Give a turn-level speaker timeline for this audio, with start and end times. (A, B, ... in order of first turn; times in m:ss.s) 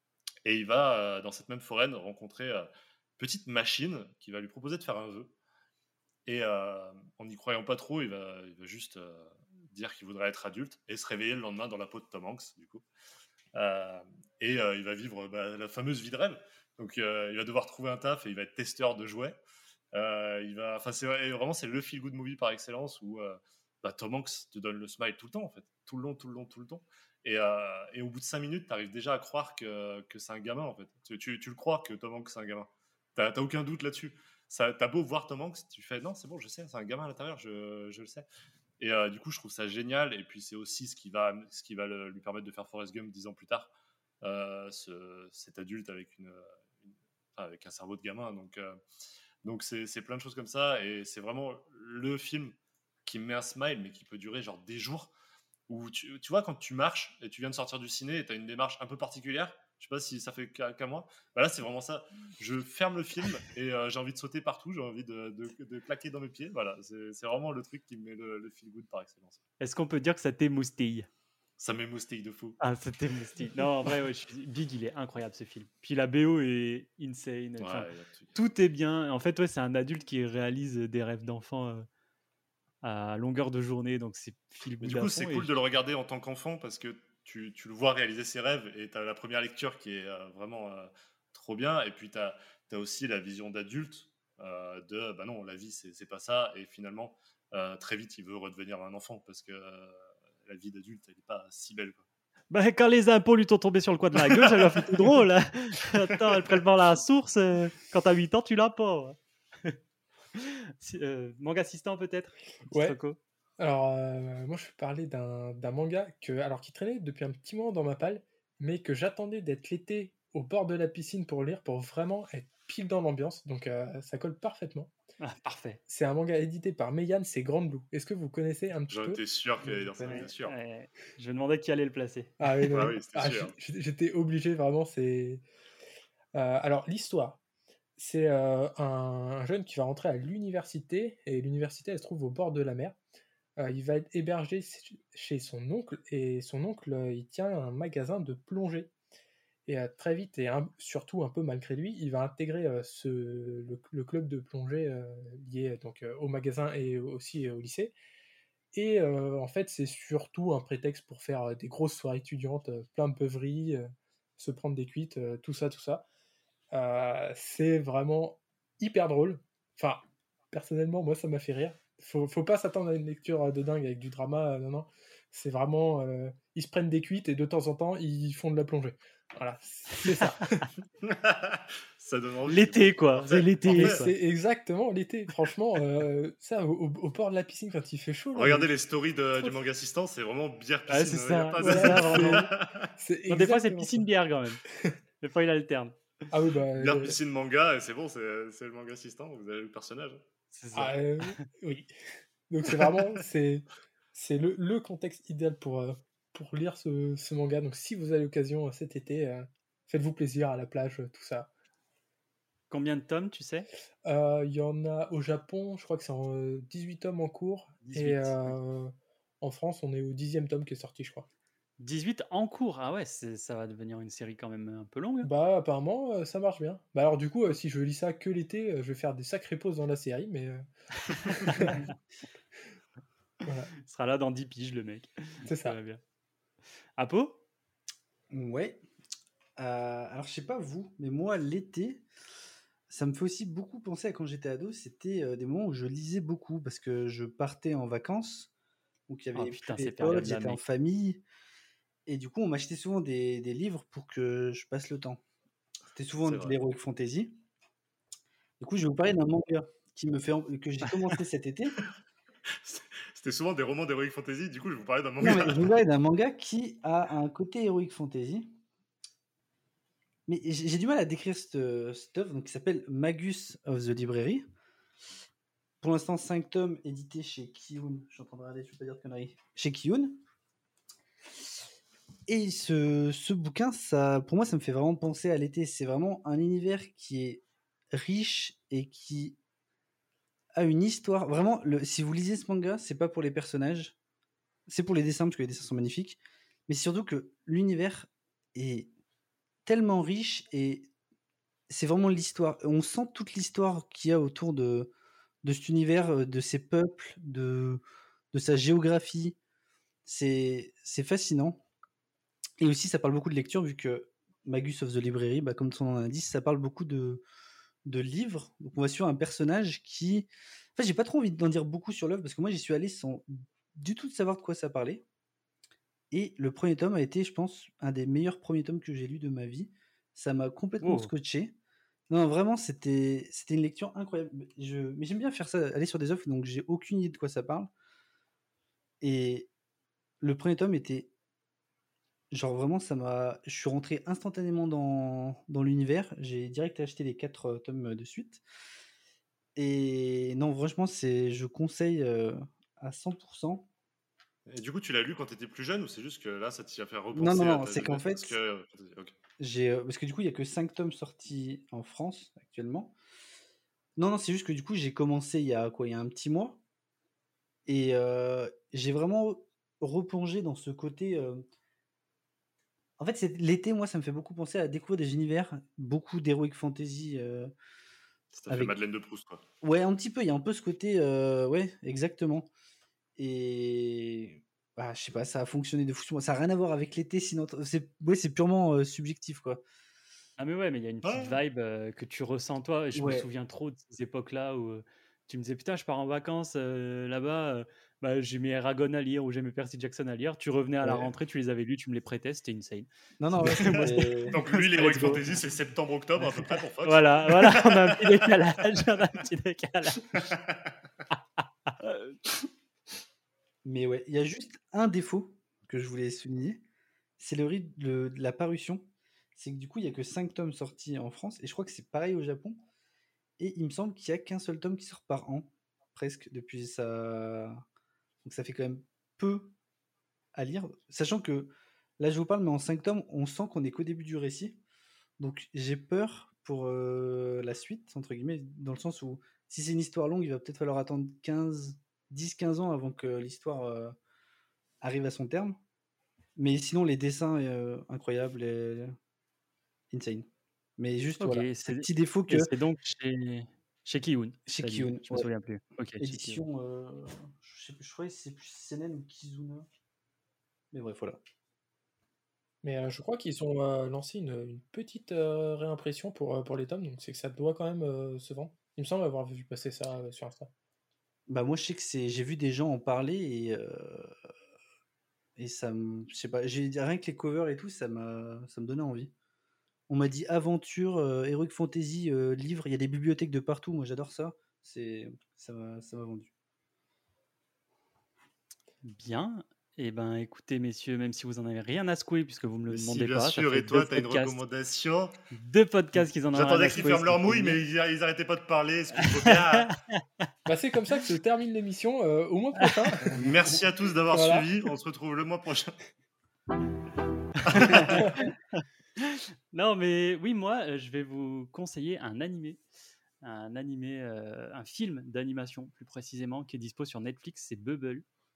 0:00.4-0:05.3 A
0:06.2-0:12.8 A
0:13.5-0:19.4 A
0:19.9-0:38.2 A
0:38.8-0:48.8 A
0:49.4-0:55.1 A
0:55.7-1:09.4 A
1:09.6-1:11.1 B
1:11.6-1:12.6 A
1:12.6-1:21.9 B
1:17.6-1:18.3 A
1:22.8-1:25.5 B
1:24.8-1:42.0 A
1:42.5-1:49.8 B
1:44.7-1:45.1 A
1:50.3-1:53.2 B
1:52.7-1:53.0 C
1:53.6-2:04.9 C
2:05.2-2:05.8 B
2:05.9-2:09.2 C
2:08.9-2:10.5 A
2:09.6-2:10.3 D
2:10.1-2:12.5 B
2:12.4-2:15.4 C
2:12.7-2:13.5 A
2:16.3-2:17.4 C
2:18.0-2:23.0 C
2:23.6-2:28.9 C
2:29.6-2:37.9 C
2:38.7-2:46.0 C
2:46.7-3:00.7 C
3:01.0-3:04.0 A
3:02.5-3:04.1 B
3:03.7-3:08.7 C
3:08.3-3:12.9 A
3:10.9-3:12.5 B
3:11.6-3:14.0 C
3:13.3-3:14.6 B
3:15.2-3:16.0 B
3:16.3-3:17.2 C
3:16.8-3:20.2 A
3:20.5-3:21.4 B
3:20.7-3:21.9 C
3:22.5-3:31.5 C
3:32.7-3:33.7 B
3:34.0-3:41.3 C
3:37.8-3:38.6 B
3:41.8-3:45.3 B
3:45.2-3:50.6 C
3:51.2-3:51.6 B
3:51.4-3:51.8 C
3:53.4-3:53.7 C
3:53.8-3:56.0 B
3:55.4-3:55.8 C
3:57.0-3:57.4 B
3:58.3-3:58.8 D
3:59.6-4:02.0 D
4:02.9-4:08.5 D
4:09.1-4:11.2 D
4:09.3-4:10.6 B
4:12.0-4:15.2 D
4:15.9-4:17.4 D
4:16.2-4:16.6 A
4:18.6-4:21.8 D
4:22.6-4:25.7 A
4:25.2-4:28.5 D
4:30.3-4:34.4 D
4:35.8-4:40.2 D
4:42.3-4:49.4 D
4:50.5-4:53.9 D
4:54.7-4:58.9 D
4:59.6-5:00.9 D
5:01.7-5:04.9 D
5:05.4-5:09.4 D
5:10.0-5:11.6 D
5:12.6-5:17.2 D
5:17.8-5:25.0 D
5:26.1-5:31.6 D
5:30.8-5:31.1 B
5:32.1-5:37.7 D
5:39.0-5:39.5 D
5:40.2-5:41.1 D
5:42.3-5:48.4 D
5:49.6-5:53.6 D
5:54.5-5:59.1 A
5:57.1-5:58.4 D
5:59.4-6:02.9 D
6:04.0-6:06.6 D
6:07.6-6:11.4 D
6:13.0-6:17.5 D
6:18.3-6:19.4 A
6:18.5-6:18.8 D
6:19.6-6:22.5 D
6:23.2-6:29.6 D
6:30.4-6:42.9 B
6:31.0-6:31.4 A
6:32.9-6:33.3 D
6:40.8-6:41.1 D
6:43.2-6:45.3 D
6:43.4-6:44.2 B
6:44.3-6:47.9 A
6:46.8-6:50.3 B
6:50.2-6:50.6 A
6:51.1-6:52.2 B
6:53.6-6:56.6 D
6:57.2-7:02.6 D
7:03.4-7:07.6 D
7:08.2-7:09.5 D
7:10.3-7:14.6 D
7:15.2-7:24.0 D
7:24.8-7:25.6 D
7:26.4-7:29.0 D
7:29.9-7:32.5 D
7:31.2-7:36.4 B
7:34.5-7:35.3 D
7:36.0-7:39.7 D
7:40.7-7:41.2 D
7:42.6-7:50.5 C
7:51.3-7:54.1 D
7:55.4-7:59.1 D
7:59.9-8:06.3 D
8:08.8-8:14.4 B
8:12.7-8:15.1 A
8:15.3-8:17.6 B
8:16.3-8:19.7 A
8:20.4-8:23.1 C
8:23.1-8:25.7 A
8:24.1-8:24.5 C
8:27.4-8:28.0 A
8:27.5-8:28.0 B
8:28.0-8:28.2 C
8:28.6-8:32.6 B
8:33.2-8:38.0 B